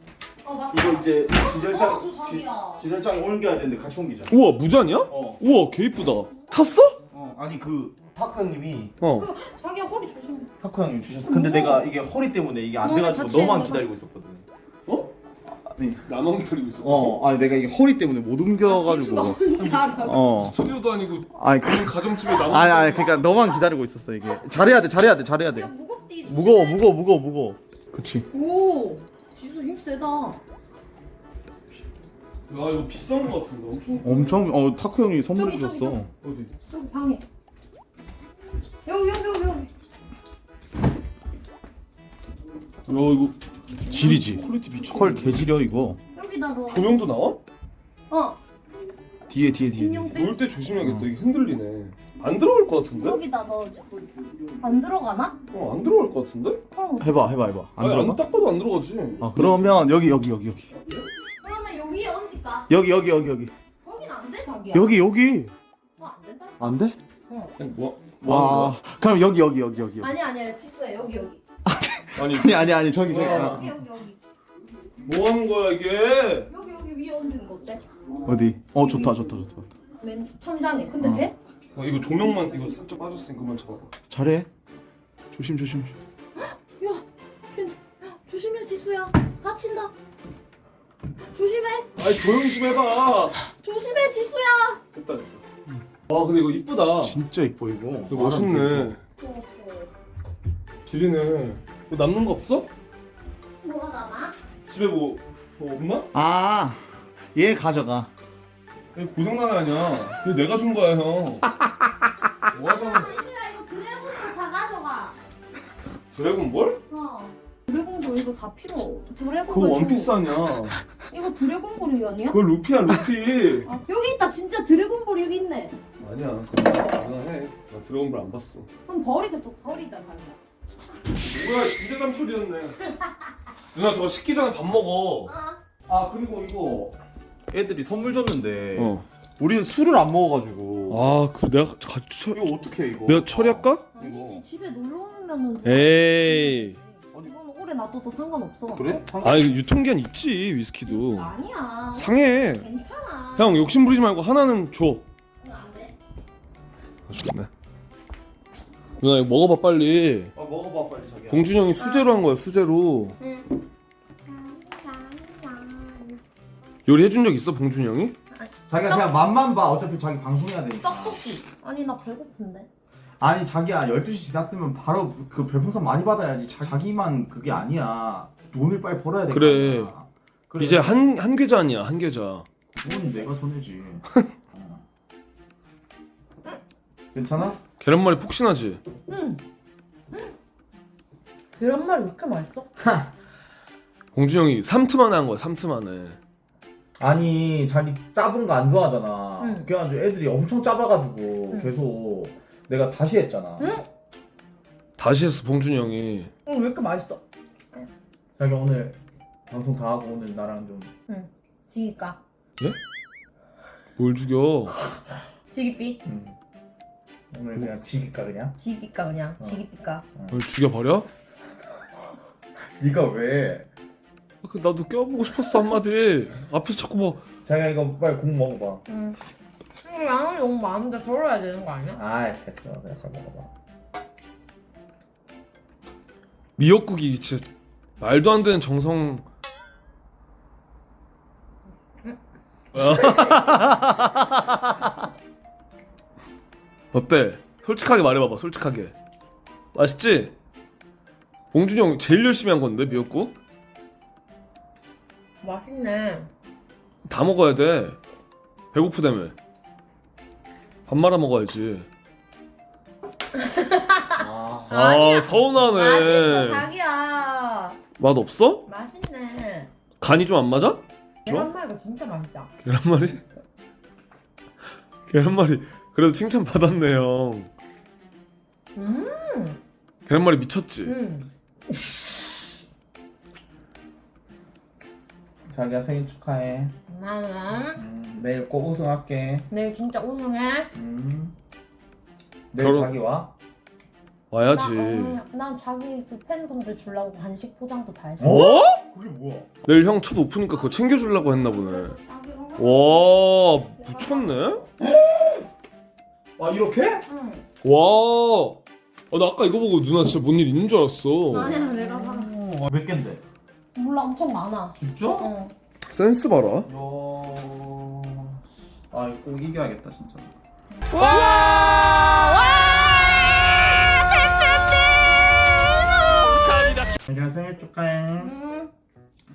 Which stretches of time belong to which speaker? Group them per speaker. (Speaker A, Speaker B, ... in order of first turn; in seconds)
Speaker A: 0.4-2.8, 6.3-6.6, 9.1-10.5, 11.2-11.9, 12.8-13.9, 18.6-20.3, 22.5-23.6, 25.4-26.9, 28.3-30.4, 33.9-34.4, 35.3-36.0, 36.7-37.2, 38.8-39.7, 46.1-47.0, 48.1-48.4, 49.8-50.4, 53.0-53.9, 54.6-55.4, 56.7-57.1, 61.4-62.7, 63.8-65.0, 66.0-66.6, 67.3-67.5, 70.0-71.4, 73.0-74.2, 76.5-77.8, 78.7-79.2, 80.0-81.3, 86.4-89.9, 91.2-91.9, 93.6-94.8, 99.2-99.9, 103.6-104.3, 112.7-115.2, 116.9-120.2, 121.1-122.4, 123.6-125.8, 128.8-130.4, 135.3-135.6, 143.9-148.9, 150.9-153.7, 155.4-155.9, 161.8-162.2, 163.2-163.5, 164.2-166.2, 168.3-169.1, 170.8-172.7, 182.8-183.2, 189.1-189.4, 191.6-192.7, 199.4-199.7, 203.6-203.8, 206.4-207.2, 211.1-212.2, 215.5-216.0, 218.5-220.0, 228.9-229.2, 229.8-232.0, 255.4-256.3, 263.3-267.8, 268.6-269.7, 271.2-272.5, 278.7-279.6, 280.8-281.3, 286.9-287.8, 289.5-290.7, 294.5-298.6, 300.6-303.2, 303.8-304.6, 307.1-307.4, 311.3-312.3, 313.7-315.5, 320.8-323.2, 328.2-328.7
Speaker B: 0.7-4.3, 5.1-5.4, 7.1-8.9, 10.6-14.4, 15.6-16.0, 16.8-20.6, 21.3-25.7, 26.3-28.3, 34.0-36.1, 43.9-46.0, 49.3-50.2, 50.8-51.1, 57.0-58.2, 59.2-60.6, 62.7-63.5, 64.7-65.5, 66.6-67.0, 68.2-70.1, 71.7-73.6, 78.2-79.7, 81.0-81.3, 84.1-84.5, 85.3-85.9, 97.0-98.9, 106.1-108.1, 135.9-136.9, 137.5-141.1, 142.3-144.4, 148.7-149.5, 160.3-161.5, 168.7-171.2, 173.2-181.0, 182.7-184.8, 187.1-187.6, 192.8-193.1, 197.0-203.7, 208.4-209.0, 209.5-210.9, 216.0-216.3, 217.3-218.5, 220.2-220.4, 222.8-223.7, 227.4-228.8, 231.9-233.5, 264.1-264.8, 285.5-286.7, 287.8-289.4, 290.7-291.3, 292.5-293.3, 298.2-299.5, 304.8-305.4, 306.4-307.0, 311.5-313.2, 314.8-315.3, 316.6-318.4, 318.9-320.3, 327.1-328.3
Speaker C: 4.3-7.0, 9.0-9.3, 16.0-17.2, 19.6-23.2, 32.5-34.2, 36.2-36.5, 42.9-43.4, 43.9-45.4, 46.7-47.4, 50.1-53.2, 55.5-56.6, 57.8-59.7, 60.8-61.1, 67.6-68.8, 72.2-73.7, 75.0-76.5, 81.7-83.9, 92.0-93.4, 94.9-95.4, 96.1-97.2, 98.1-99.0, 100.8-102.7, 104.7-106.1, 108.9-111.5, 112.5-113.1, 116.1-116.8, 119.5-120.8, 122.3-123.7, 126.0-128.7, 131.2-132.9, 133.7-135.3, 138.7-139.0, 140.9-142.4, 143.1-143.9, 145.6-146.8, 149.2-151.3, 151.9-152.7, 153.3-155.0, 157.1-157.5, 159.0-160.3, 161.3-163.2, 166.8-168.1, 179.3-179.9, 180.6-182.4, 187.8-188.8, 194.1-196.2, 205.0-206.3, 214.0-214.8, 220.3-221.1, 224.4-227.2, 236.6-237.4, 238.0-239.2, 242.7-244.9, 246.9-248.9, 249.7-250.3, 251.5-253.3, 257.0-258.0, 258.7-259.3, 260.9-261.9, 264.7-266.7, 268.0-268.6, 270.0-271.5, 272.6-273.2, 275.1-277.5, 280.1-280.9, 292.6-292.9, 294.3-295.2, 298.2-298.8, 299.6-302.0, 302.6-304.6, 307.6-311.6, 315.9-316.7